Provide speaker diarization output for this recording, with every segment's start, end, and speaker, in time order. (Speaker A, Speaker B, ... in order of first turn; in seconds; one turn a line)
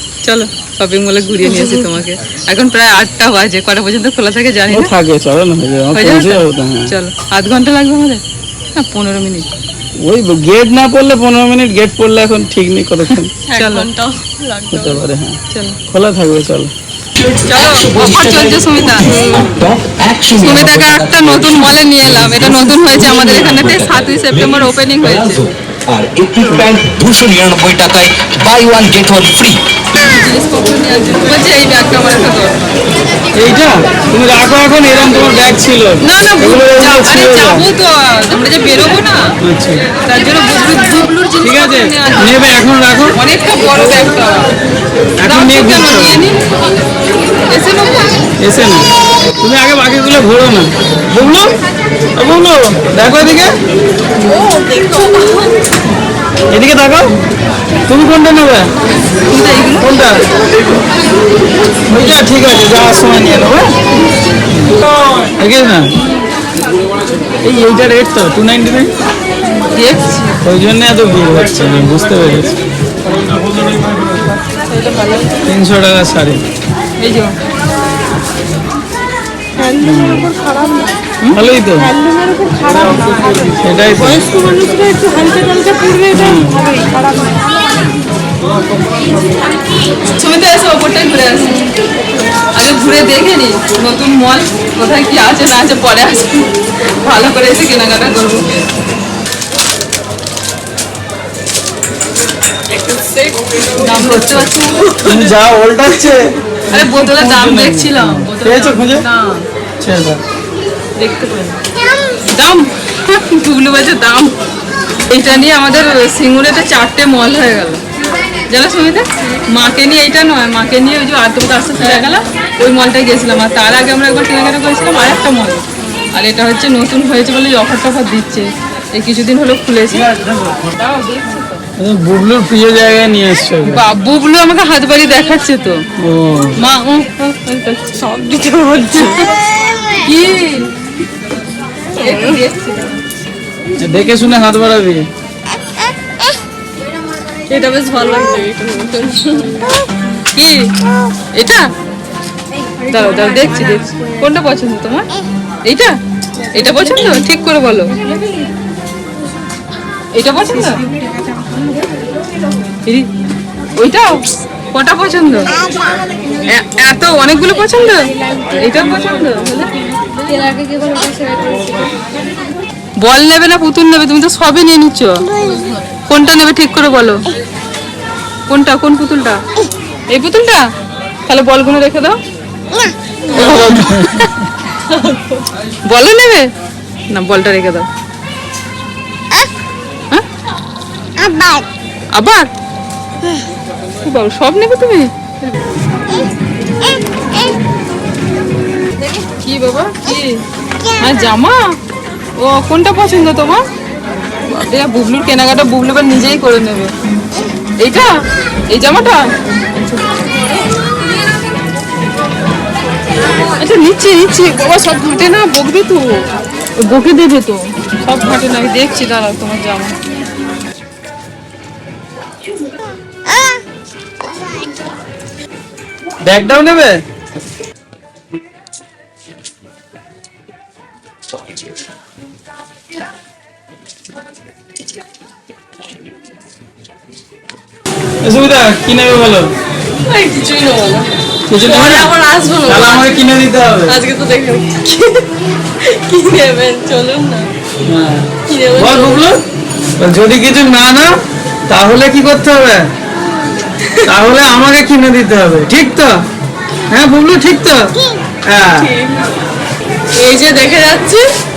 Speaker A: 0.2-4.9
Speaker B: 1.4-1.8
Speaker C: 4.7-6.9
Speaker A: 5.9-8.2
Speaker A: 8.8-9.5
Speaker C: 10.0-13.3
Speaker A: 13.2-13.9
Speaker B: 13.4-15.0
Speaker C: 14.7-15.4
Speaker A: 15.5-15.8
Speaker C: 15.9-16.7
Speaker D: 17.2-29.6
Speaker A: 17.4-19.7
Speaker A: 20.4-25.5
Speaker C: 26.4-26.7
Speaker A: 30.0-32.8
Speaker C: 33.4-37.7
Speaker A: 36.0-39.2
Speaker C: 39.4-39.9
Speaker A: 40.0-42.5
Speaker C: 41.4-43.2
Speaker A: 43.1-44.5
Speaker C: 45.2-46.2
Speaker A: 45.2-46.4
Speaker A: 47.5-48.3
Speaker C: 48.4-48.9
Speaker C: 49.4-51.6
Speaker C: 52.2-53.5
Speaker B: 54.2-55.6
Speaker C: 56.5-57.1
Speaker C: 57.9-58.7
Speaker A: 59.3-59.9
Speaker C: 59.8-60.8
Speaker C: 61.9-63.7
Speaker C: 64.5-64.8
Speaker C: 65.3-65.9
Speaker A: 66.0-66.3
Speaker C: 67.4-68.9
Speaker A: 69.6-70.4
Speaker C: 70.4-73.4
Speaker A: 74.5-75.4
Speaker C: 75.5-76.4
Speaker A: 77.0-77.3
Speaker A: 79.6-83.6
Speaker C: 79.8-80.3
Speaker C: 81.3-81.9
Speaker C: 83.6-84.2
Speaker B: 84.2-84.5
Speaker A: 84.3-87.3
Speaker C: 86.1-86.6
Speaker A: 90.1-91.7
Speaker A: 92.5-98.7
Speaker B: 102.7-103.9
Speaker A: 103.8-104.9
Speaker C: 103.8-104.5
Speaker B: 104.6-105.3
Speaker C: 105.0-109.0
Speaker A: 106.7-109.4
Speaker C: 109.8-110.2
Speaker A: 111.0-111.4
Speaker B: 111.3-111.6
Speaker A: 112.3-114.3
Speaker A: 115.1-117.8
Speaker A: 118.5-130.1
Speaker C: 129.9-130.7
Speaker A: 130.7-131.6
Speaker C: 131.8-133.8
Speaker A: 133.6-135.8
Speaker C: 136.0-136.6
Speaker A: 136.6-137.9
Speaker B: 137.9-139.3
Speaker A: 140.0-140.7
Speaker A: 142.0-143.0
Speaker B: 142.0-142.4
Speaker C: 143.8-145.1
Speaker B: 147.5-149.7
Speaker A: 150.3-150.7
Speaker A: 151.3-151.7
Speaker A: 152.9-155.1
Speaker A: 155.7-155.9
Speaker A: 156.5-158.0
Speaker A: 160.1-160.8
Speaker A: 163.8-164.2
Speaker A: 164.7-165.6
Speaker A: 166.4-169.7
Speaker A: 170.3-171.8
Speaker A: 173.0-175.3
Speaker B: 175.4-175.9
Speaker A: 176.1-177.2
Speaker A: 178.5-179.4
Speaker A: 180.1-180.6
Speaker A: 181.3-182.2
Speaker A: 183.3-184.1
Speaker C: 183.5-184.3
Speaker B: 184.9-185.5
Speaker A: 185.9-186.5
Speaker A: 187.1-187.9
Speaker A: 192.1-192.5
Speaker A: 194.0-195.5
Speaker A: 199.3-200.4
Speaker A: 201.0-201.8
Speaker A: 202.4-203.6
Speaker A: 204.5-206.9
Speaker A: 207.8-208.2
Speaker A: 208.7-209.2
Speaker B: 210.1-210.7
Speaker A: 213.6-216.2
Speaker A: 216.8-220.0
Speaker C: 226.2-227.0
Speaker C: 238.2-239.5
Speaker B: 240.0-243.3
Speaker C: 241.5-244.0
Speaker B: 243.9-245.3
Speaker B: 245.8-247.5
Speaker C: 247.8-249.4
Speaker B: 248.5-249.3
Speaker C: 250.0-251.1
Speaker C: 251.7-252.9
Speaker C: 254.0-256.2
Speaker C: 256.9-257.9
Speaker C: 258.5-258.9
Speaker B: 258.7-259.4
Speaker B: 260.1-261.3